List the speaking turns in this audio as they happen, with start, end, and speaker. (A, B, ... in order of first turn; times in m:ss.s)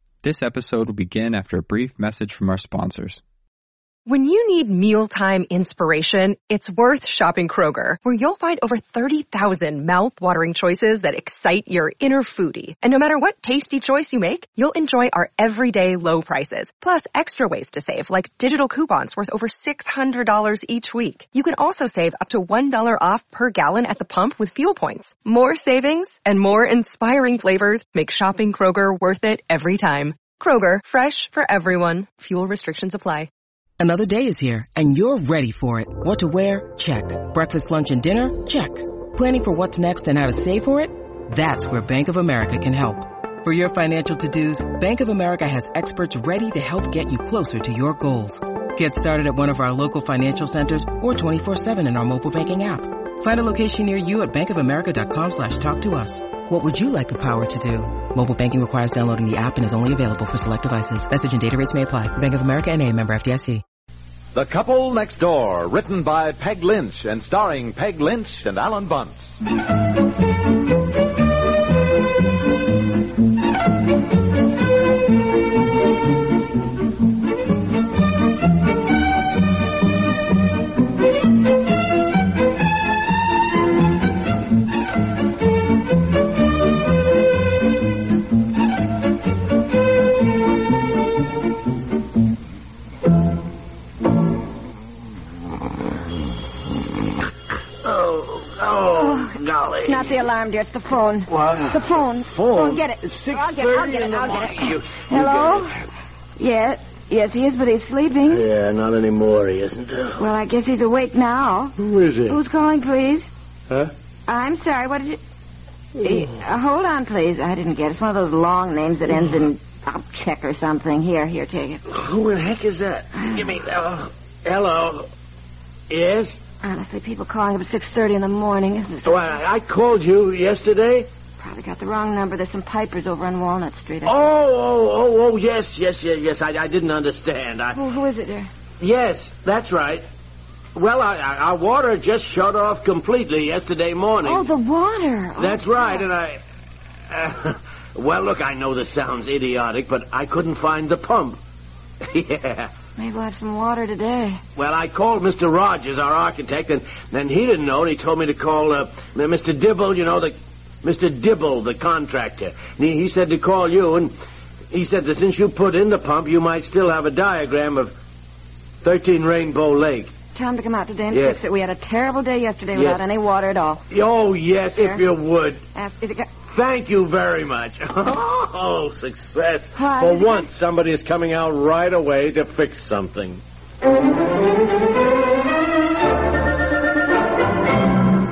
0:00.2-0:03.2 A
0:04.1-0:33.3 B
0:33.8-1:03.6 C
1:04.3-1:09.4 D
1:37.8-1:40.2 E
1:39.8-1:45.8 F
1:41.3-1:45.8 E
1:46.4-1:48.4 F
1:48.3-1:50.2 E
1:50.2-1:51.7 F
1:51.8-1:52.4 E
1:52.3-1:53.3 F
1:54.3-1:55.2 F
1:56.0-2:01.8 F
2:01.9-2:05.1 E
2:03.2-2:03.5 F
2:05.9-2:06.4 E
2:06.6-2:09.2 F
2:09.0-2:11.1 E
2:11.4-2:14.2 F
2:14.0-2:17.8 E
2:17.7-2:18.5 F
2:18.8-2:20.0 E
2:20.7-2:24.5 E
2:24.2-2:26.0 F
2:25.4-2:26.4 E
2:27.1-2:31.4 E
2:32.0-2:32.7 E
2:33.0-2:34.4 F
2:34.6-2:44.1 E
2:44.7-2:47.9 E
2:48.8-2:50.1 E
2:50.3-2:53.8 F
2:51.1-2:51.4 E
2:52.7-2:53.0 E
2:53.9-2:55.6 E
2:54.8-2:55.0 F
2:55.7-2:56.3 F
2:56.5-3:03.4 E
2:59.7-3:00.5 F